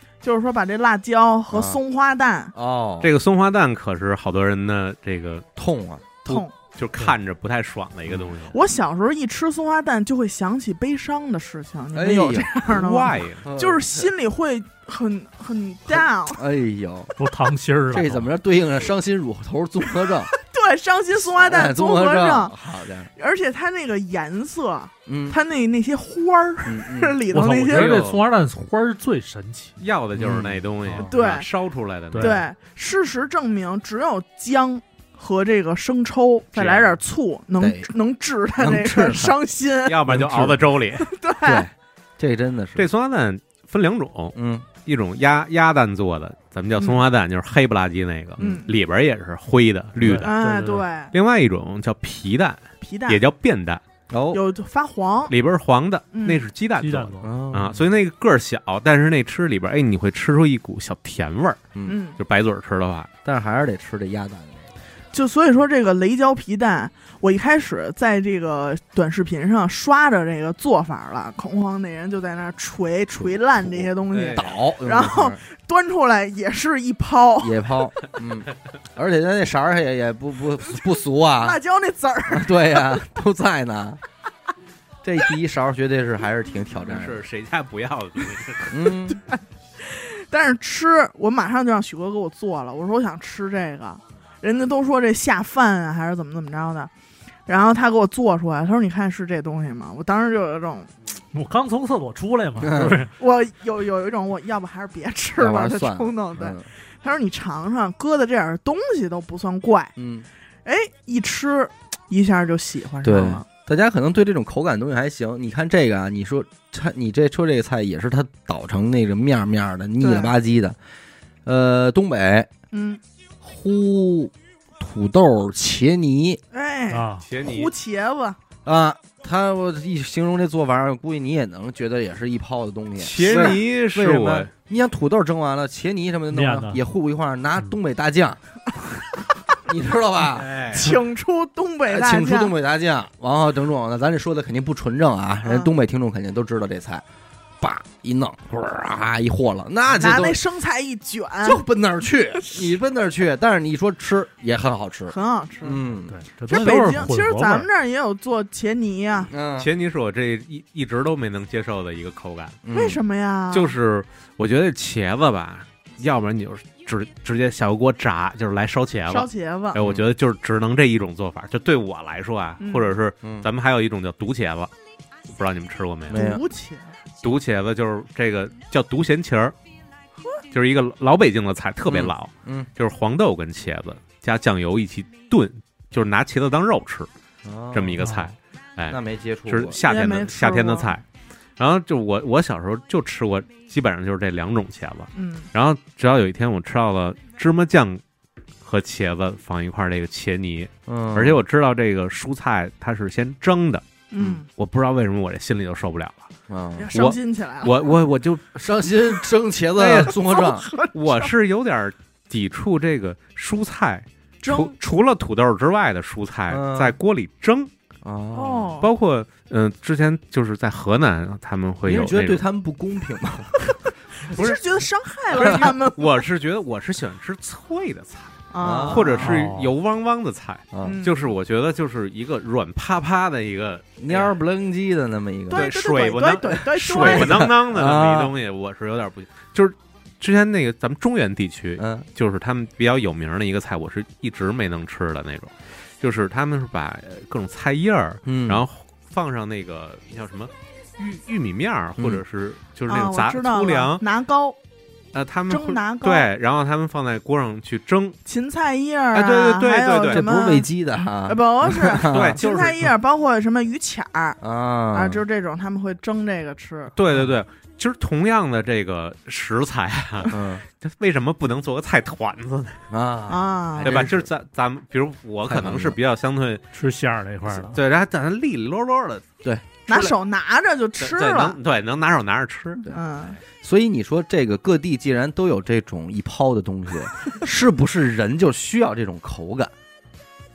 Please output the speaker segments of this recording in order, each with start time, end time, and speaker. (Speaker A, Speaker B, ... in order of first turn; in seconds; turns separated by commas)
Speaker A: 0.2-2.5, Speaker B: 1.5-1.8, Speaker B: 2.5-3.1, Speaker C: 3.0-5.5, Speaker B: 5.6-6.4, Speaker A: 6.3-6.5, Speaker C: 6.4-8.6, Speaker B: 8.1-8.3, Speaker A: 8.5-16.4, Speaker B: 11.9-12.7, Speaker C: 12.7-13.5, Speaker B: 13.4-14.1, Speaker B: 15.9-17.1, Speaker D: 17.2-18.3, Speaker B: 17.9-20.3, Speaker A: 20.3-22.5, Speaker B: 21.2-23.1, Speaker A: 23.2-28.0, Speaker B: 25.1-25.4, Speaker B: 26.6-27.2, Speaker D: 27.3-29.8, Speaker C: 27.7-28.2, Speaker C: 29.8-32.4, Speaker B: 30.2-30.6, Speaker D: 30.9-31.1, Speaker A: 31.1-31.5, Speaker D: 32.1-32.5, Speaker A: 32.1-40.0, Speaker C: 36.5-37.0, Speaker B: 37.6-37.9, Speaker B: 38.6-39.4, Speaker C: 39.9-41.1, Speaker B: 40.1-40.7, Speaker A: 41.0-41.7, Speaker B: 41.4-42.9, Speaker C: 42.8-50.3, Speaker B: 44.3-44.7, Speaker B: 48.4-48.6, Speaker A: 48.4-48.7, Speaker D: 50.0-50.9, Speaker A: 50.2-51.1, Speaker C: 51.1-53.8, Speaker A: 52.8-53.2, Speaker B: 54.1-54.4, Speaker A: 54.3-55.3, Speaker C: 55.3-61.7, Speaker A: 56.1-56.5, Speaker D: 56.8-57.3, Speaker B: 57.2-57.9, Speaker A: 61.9-62.2, Speaker C: 62.2-63.1, Speaker B: 63.2-64.7, Speaker A: 65.1-77.6, Speaker B: 73.1-75.4, Speaker C: 74.1-74.6, Speaker B: 77.4-81.6, Speaker A: 81.4-83.0, Speaker B: 82.3-84.0, Speaker B: 85.0-87.2, Speaker C: 86.9-88.8, Speaker B: 88.7-89.2, Speaker A: 89.2-96.9, Speaker A: 97.5-100.9, Speaker D: 101.3-103.1, Speaker B: 102.6-103.1, Speaker A: 103.2-109.9, Speaker B: 105.4-106.7, Speaker B: 110.0-110.3, Speaker A: 110.7-113.5, Speaker B: 113.0-120.8, Speaker A: 120.0-120.3, Speaker B: 121.5-122.5, Speaker A: 122.7-123.0, Speaker B: 123.4-126.4, Speaker A: 126.5-128.4, Speaker D: 126.9-127.3, Speaker C: 127.2-127.7, Speaker B: 128.7-138.4, Speaker C: 133.0-134.5, Speaker A: 133.2-133.6, Speaker D: 136.3-136.8, Speaker B: 139.7-140.5, Speaker C: 140.3-141.0, Speaker A: 140.7-142.5, Speaker B: 141.9-147.0, Speaker A: 145.4-145.7, Speaker B: 147.6-150.4, Speaker A: 149.9-151.6, Speaker B: 151.4-156.2, Speaker A: 152.3-152.8, Speaker A: 155.1-155.8, Speaker D: 156.1-157.7, Speaker A: 156.5-159.3, Speaker B: 159.3-159.7, Speaker C: 159.6-162.6, Speaker B: 162.6-163.0, Speaker A: 162.7-163.8, Speaker C: 163.5-174.7, Speaker A: 169.1-169.8, Speaker B: 169.8-170.1, Speaker A: 172.6-173.0, Speaker B: 173.2-173.5, Speaker C: 175.3-176.3, Speaker B: 176.1-176.4, Speaker A: 176.1-177.0, Speaker C: 177.2-179.6, Speaker C: 180.5-187.1, Speaker B: 181.9-182.7, Speaker B: 187.4-188.1, Speaker C: 187.7-191.1, Speaker D: 188.0-188.3, Speaker B: 188.9-189.8, Speaker A: 189.8-191.0, Speaker C: 191.6-198.0, Speaker A: 195.1-195.5, Speaker C: 198.6-203.8, Speaker B: 200.9-201.4, Speaker A: 204.1-204.5, Speaker C: 204.5-206.3, Speaker B: 206.5-206.9, Speaker A: 206.8-207.9, Speaker C: 206.9-208.6, Speaker B: 208.6-210.7, Speaker C: 209.8-210.2, Speaker A: 210.2-211.3, Speaker C: 210.9-217.7, Speaker A: 214.4-214.8, Speaker B: 216.5-217.0, Speaker B: 218.0-218.8, Speaker A: 218.3-218.9, Speaker C: 218.8-222.4, Speaker B: 221.8-223.6, Speaker A: 224.2-226.2, Speaker C: 224.3-224.7, Speaker C: 225.3-228.4, Speaker B: 225.4-225.7, Speaker A: 228.5-229.2, Speaker B: 228.6-229.4, Speaker C: 228.9-234.3, Speaker D: 229.2-229.7, Speaker B: 230.7-231.0, Speaker A: 230.8-231.2, Speaker B: 234.0-235.7, Speaker A: 235.5-237.5, Speaker C: 235.5-254.0, Speaker B: 236.9-238.3, Speaker B: 241.8-242.1, Speaker B: 248.2-248.7, Speaker A: 252.9-254.6, Speaker C: 255.1-258.2, Speaker A: 255.5-256.3, Speaker A: 258.3-260.7, Speaker C: 259.1-260.2, Speaker B: 260.1-262.4, Speaker A: 261.2-264.4, Speaker C: 262.1-262.9, Speaker B: 264.4-265.2, Speaker A: 264.9-266.9, Speaker C: 266.9-272.8, Speaker B: 270.3-270.6, Speaker B: 272.9-274.3, Speaker A: 273.3-274.1, Speaker C: 273.8-276.6, Speaker B: 275.4-276.0, Speaker D: 276.7-277.8, Speaker C: 277.5-279.3, Speaker B: 279.4-280.1, Speaker A: 279.9-281.6, Speaker C: 281.0-282.8, Speaker A: 282.9-283.4, Speaker B: 283.6-289.7